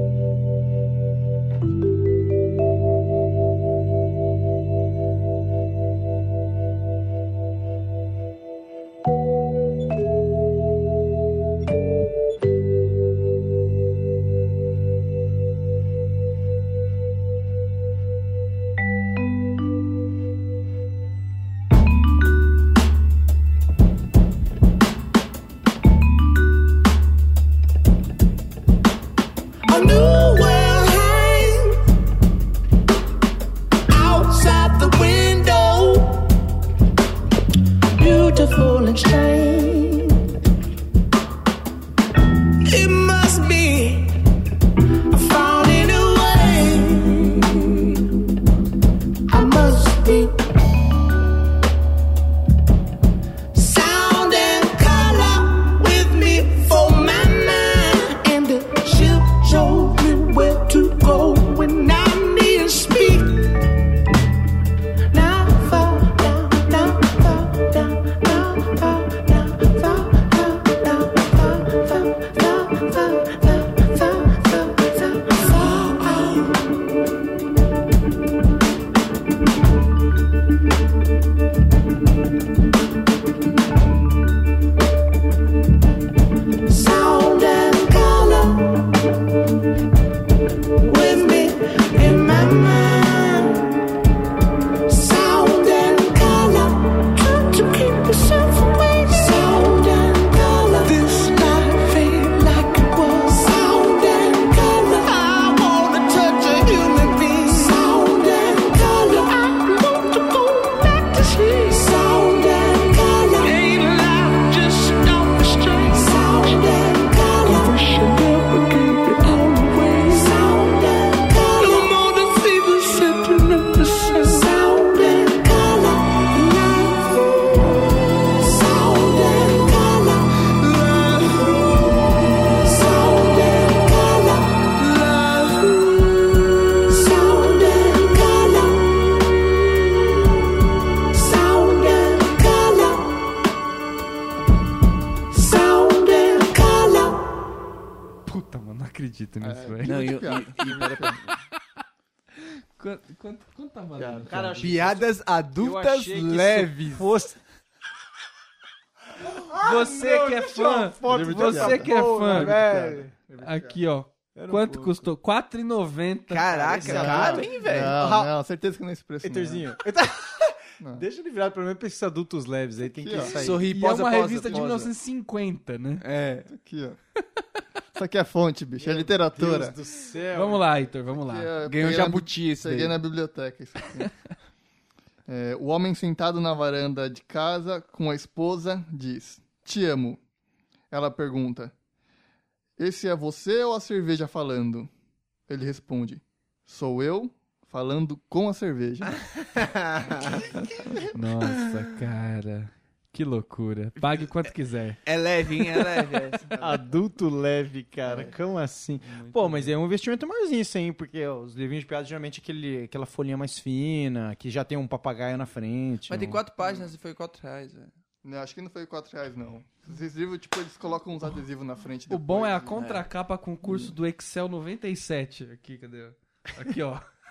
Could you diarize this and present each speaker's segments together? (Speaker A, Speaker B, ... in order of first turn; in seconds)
Speaker A: 29.7-31.8, 33.9-36.2, 37.9-40.2, 42.6-44.2, 45.1-48.1, 49.3-50.5, 53.5-63.7, 65.1-76.6, 86.7-88.9, 90.8-93.8, 94.9-127.7, 128.3-139.2, 141.1-143.1, 145.3-147.2
Speaker B: 148.2-150.0, 152.4-154.7, 159.6-162.6, 163.4-166.7, 173.7-176.0, 180.3-181.5, 201.1-205.0, 209.1-209.7, 222.1-227.0
Speaker C: 149.4-151.2, 154.0-154.3, 161.1-163.8, 166.8-169.7, 172.9-173.6, 176.5-177.0, 177.9-179.8, 181.2-184.1, 185.3-190.2, 190.9-191.7, 192.8-194.9, 195.5-199.2, 206.5-206.8, 208.1-208.3, 218.2-222.8, 223.7-223.9
Speaker D: 149.8-151.2, 154.6-157.2, 166.3-168.0, 173.2-174.9, 176.0-176.5, 181.7-183.0, 199.2-200.6, 205.1-206.5, 216.1-217.9, 222.8-223.1
Speaker E: 154.2-157.4, 159.2-163.5, 164.3-165.0, 166.5-168.3, 169.2-173.6, 178.8-180.7, 206.6-216.4